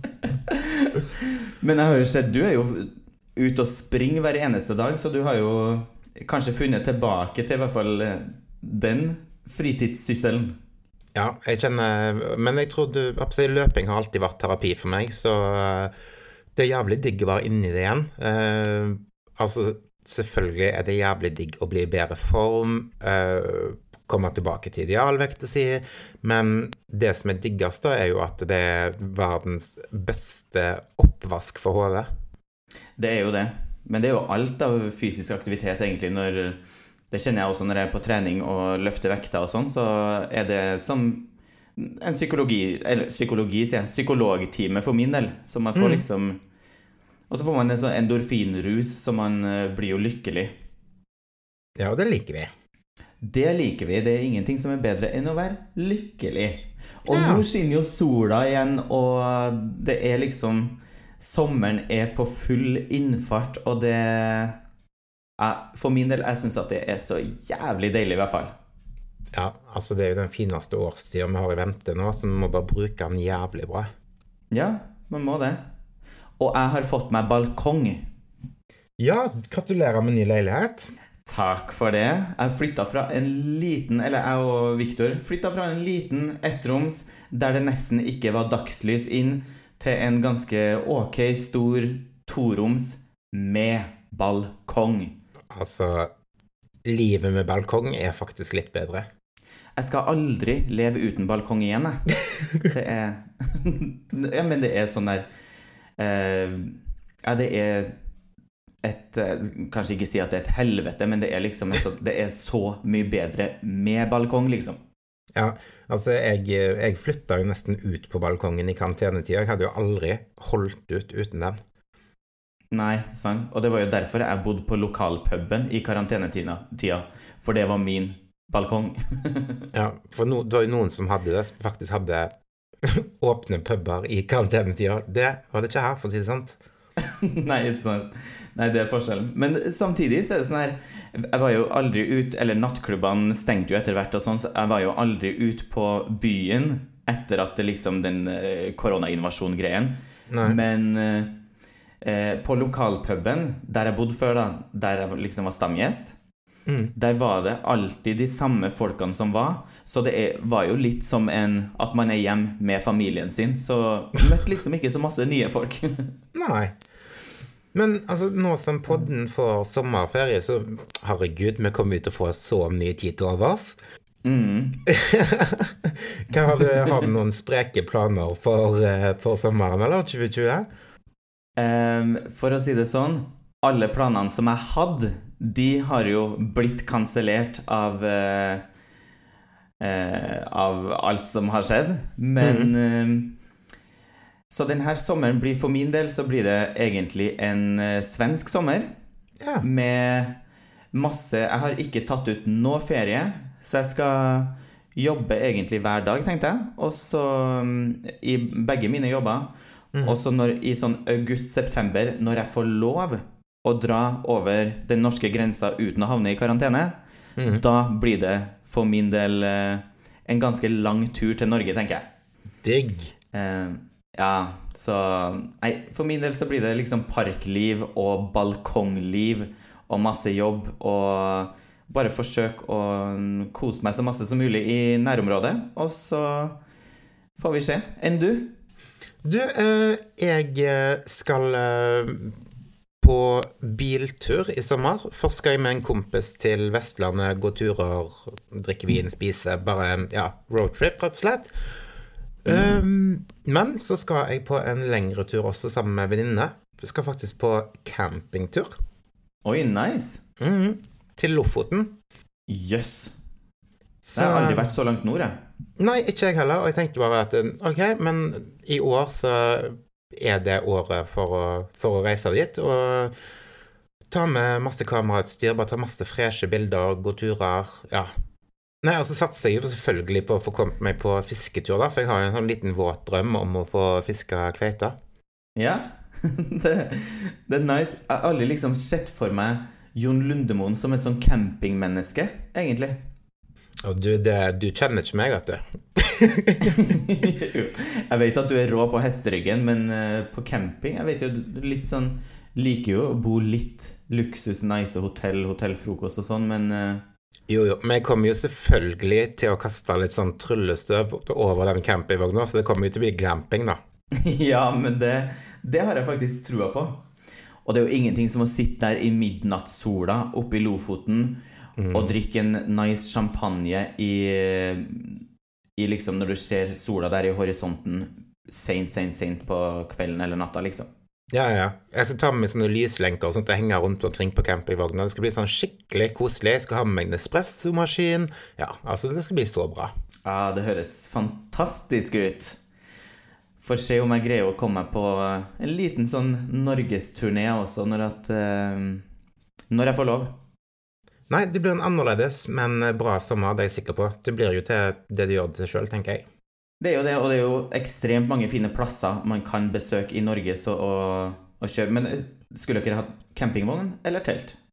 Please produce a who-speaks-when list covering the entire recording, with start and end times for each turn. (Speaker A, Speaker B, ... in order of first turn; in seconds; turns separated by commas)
Speaker A: 0.5-10.6, Speaker B: 11.2-15.9, Speaker B: 16.6-32.1, Speaker A: 33.0-36.6, Speaker A: 37.1-46.4, Speaker B: 45.8-46.0, Speaker A: 47.3-50.5, Speaker B: 51.8-52.5, Speaker A: 53.2-64.6, Speaker B: 57.1-57.5, Speaker A: 65.4-68.5, Speaker B: 69.3-73.9, Speaker A: 74.5-75.6, Speaker A: 76.4-78.1, Speaker B: 79.0-80.9, Speaker A: 81.2-95.2, Speaker B: 95.5-96.1, Speaker B: 96.8-99.1, Speaker A: 99.8-105.3, Speaker A: 106.0-108.0, Speaker A: 108.8-114.8, Speaker B: 115.4-121.6, Speaker A: 122.7-129.7, Speaker B: 129.7-132.3, Speaker B: 132.8-136.6, Speaker A: 137.0-151.4, Speaker B: 150.3-150.6, Speaker A: 152.0-156.2, Speaker B: 156.7-156.9, Speaker A: 156.9-166.1, Speaker B: 166.3-166.7, Speaker B: 167.7-173.8, Speaker A: 174.2-174.9, Speaker B: 174.9-180.7, Speaker A: 176.6-177.0, Speaker A: 181.6-188.6, Speaker A: 189.8-193.4, Speaker B: 192.4-192.7, Speaker A: 194.5-198.9, Speaker B: 199.4-199.7, Speaker A: 199.6-200.4, Speaker A: 200.9-217.0, Speaker B: 209.9-210.2, Speaker B: 217.4-217.6, Speaker A: 217.5-222.1, Speaker B: 222.6-223.1, Speaker A: 223.3-236.6, Speaker A: 237.4-238.6, Speaker B: 239.2-242.4, Speaker B: 243.0-251.5, Speaker B: 252.4-258.7, Speaker A: 252.5-252.8, Speaker A: 259.4-260.2, Speaker B: 260.4-261.9, Speaker A: 262.5-263.1, Speaker B: 264.0-264.8, Speaker A: 264.2-265.3, Speaker B: 265.8-273.1, Speaker B: 274.1-278.1, Speaker B: 278.8-284.9, Speaker A: 285.6-293.0, Speaker B: 293.8-296.8, Speaker A: 296.6-307.0, Speaker B: 307.5-313.8, Speaker A: 314.2-317.1, Speaker A: 317.6-325.2, Speaker B: 321.8-322.1, Speaker A: 325.8-330.9, Speaker B: 331.3-339.9, Speaker A: 340.2-342.6, Speaker A: 343.6-349.1, Speaker A: 349.7-350.4, Speaker B: 351.3-356.2, Speaker A: 356.8-364.6